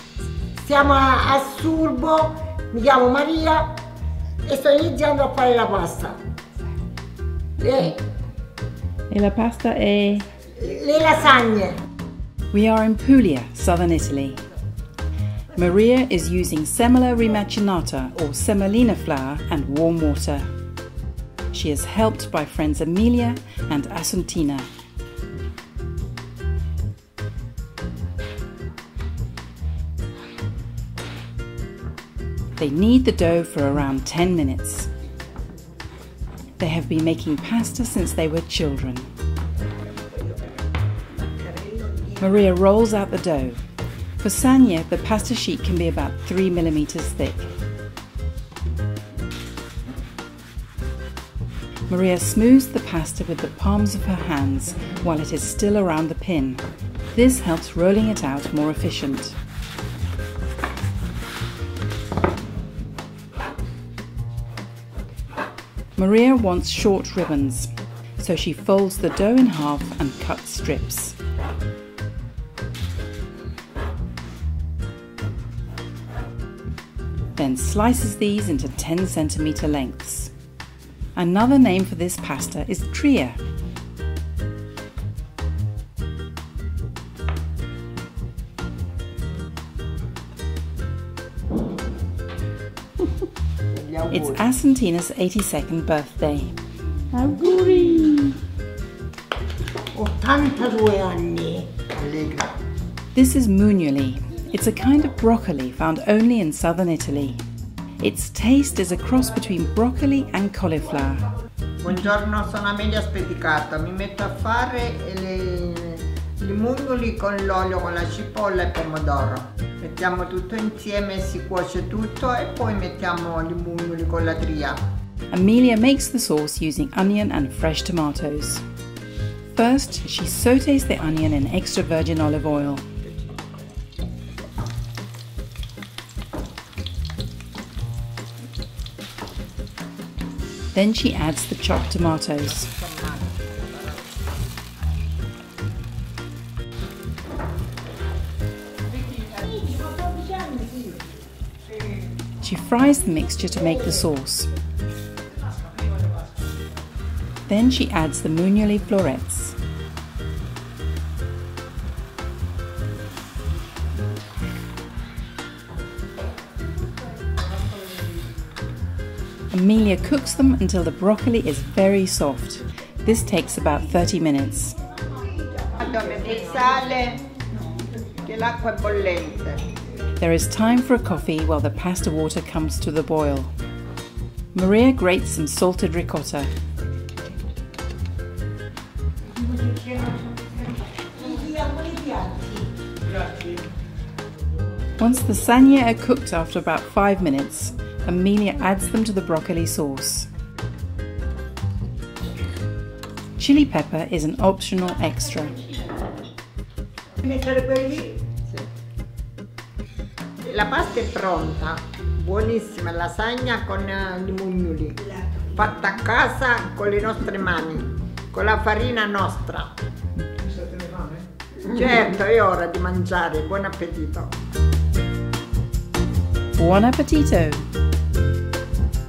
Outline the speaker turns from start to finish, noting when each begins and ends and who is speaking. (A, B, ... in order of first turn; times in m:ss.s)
0:00.6-0:03.7 A
0:04.4-0:06.2 A
0:07.6-0:08.0 A
0:09.1-0:10.2 B
0:09.1-0:10.2 C
0:10.5-0:11.8 A
0:12.5-0:14.4 C
0:15.6-0:20.5 C
0:21.5-0:24.7 C
0:32.6-0:34.9 C
0:36.6-0:39.1 C
0:42.2-0:43.6 C
0:44.2-0:47.5 C
0:51.9-0:59.4 C
1:06.0-1:11.2 C
1:17.4-1:20.3 C
1:21.2-1:23.4 C
1:33.7-1:34.4 A
1:34.1-1:36.5 C
1:37.1-1:38.3 B
1:39.9-1:42.5 A
1:43.1-1:47.4 C
1:48.0-1:51.2 C
1:51.8-2:04.8 D
2:05.3-2:08.6 C
2:09.5-2:12.8 C
2:20.7-2:22.7 C
2:29.7-2:30.9 A
2:32.4-2:34.5 C
2:37.5-2:39.6 C
2:49.5-2:54.8 C
2:55.7-2:57.2 D
2:58.2-2:59.6 D
3:00.2-3:03.5 C
3:04.5-3:06.5 C
3:11.2-3:12.5 A
3:15.0-3:20.3 C
3:23.4-3:25.6 C
3:27.3-3:28.2 A
3:30.4-3:35.0 D
3:35.5-3:39.8 D
3:41.6-3:44.3 D
3:46.5-3:47.6 C